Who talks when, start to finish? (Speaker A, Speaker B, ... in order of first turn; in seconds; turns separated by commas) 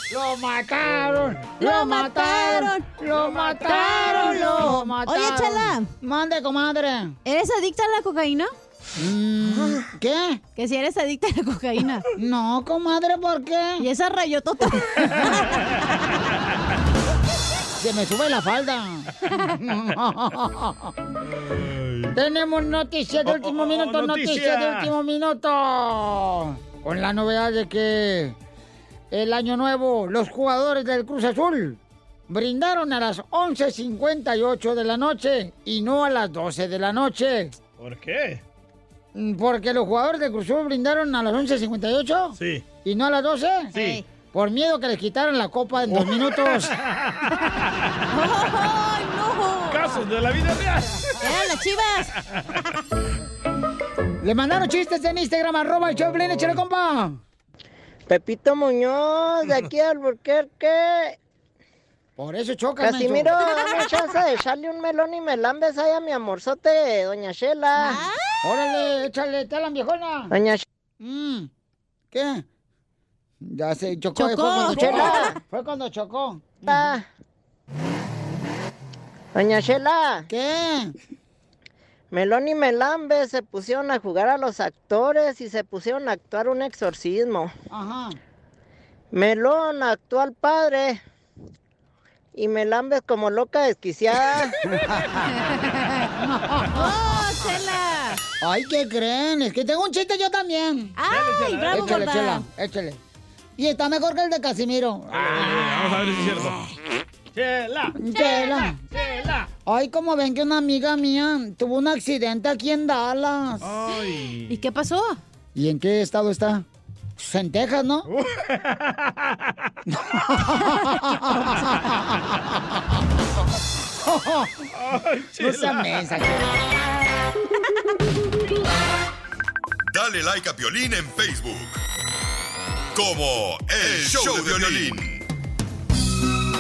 Speaker A: 0.1-7.2, Speaker B: 1.6-2.9, Speaker C: 3.1-4.3, Speaker B: 3.6-5.9, Speaker B: 7.3-8.5, Speaker A: 9.0-10.4, Speaker B: 10.6-12.0, Speaker A: 12.2-13.9, Speaker B: 13.8-15.7, Speaker A: 17.7-20.9, Speaker C: 21.2-22.2, Speaker A: 22.1-28.4, Speaker C: 23.2-24.9, Speaker A: 29.1-37.6, Speaker C: 37.8-38.4, Speaker A: 39.1-43.7, Speaker C: 42.4-42.7, Speaker B: 43.7-44.0, Speaker C: 43.8-44.0, Speaker A: 44.3-46.7, Speaker C: 45.9-47.6, Speaker B: 48.1-50.0, Speaker C: 49.7-51.2, Speaker B: 51.2-52.1, Speaker A: 54.2-57.2, Speaker C: 55.9-56.6, Speaker D: 58.1-61.2, Speaker A: 62.2-63.5, Speaker D: 62.8-68.0, Speaker B: 67.8-68.4, Speaker A: 68.4-70.3, Speaker D: 70.3-70.7, Speaker A: 71.0-71.5, Speaker A: 72.1-72.5, Speaker A: 73.4-76.6, Speaker B: 74.2-75.3, Speaker D: 74.7-75.4, Speaker D: 76.7-77.1, Speaker D: 79.3-80.3, Speaker A: 80.3-81.0, Speaker D: 82.1-87.5, Speaker A: 87.7-88.2, Speaker D: 89.1-91.0, Speaker D: 92.3-94.6, Speaker A: 94.7-95.0, Speaker B: 95.3-96.1, Speaker A: 96.2-96.9, Speaker B: 96.7-98.2, Speaker A: 98.4-101.0, Speaker B: 101.0-102.4, Speaker C: 101.1-102.1, Speaker A: 101.7-103.0, Speaker A: 103.6-105.7, Speaker C: 105.1-106.6, Speaker C: 107.3-108.0, Speaker A: 108.0-108.8, Speaker B: 108.1-108.6, Speaker C: 108.9-109.5, Speaker A: 109.7-113.7, Speaker C: 113.6-114.6, Speaker B: 114.5-115.2, Speaker A: 115.5-116.7, Speaker A: 117.2-118.1, Speaker C: 118.1-119.5, Speaker A: 119.9-122.3, Speaker B: 120.9-121.7, Speaker A: 124.0-124.7, Speaker C: 124.7-125.9, Speaker A: 125.4-126.5, Speaker E: 129.9-131.8, Speaker E: 132.9-135.2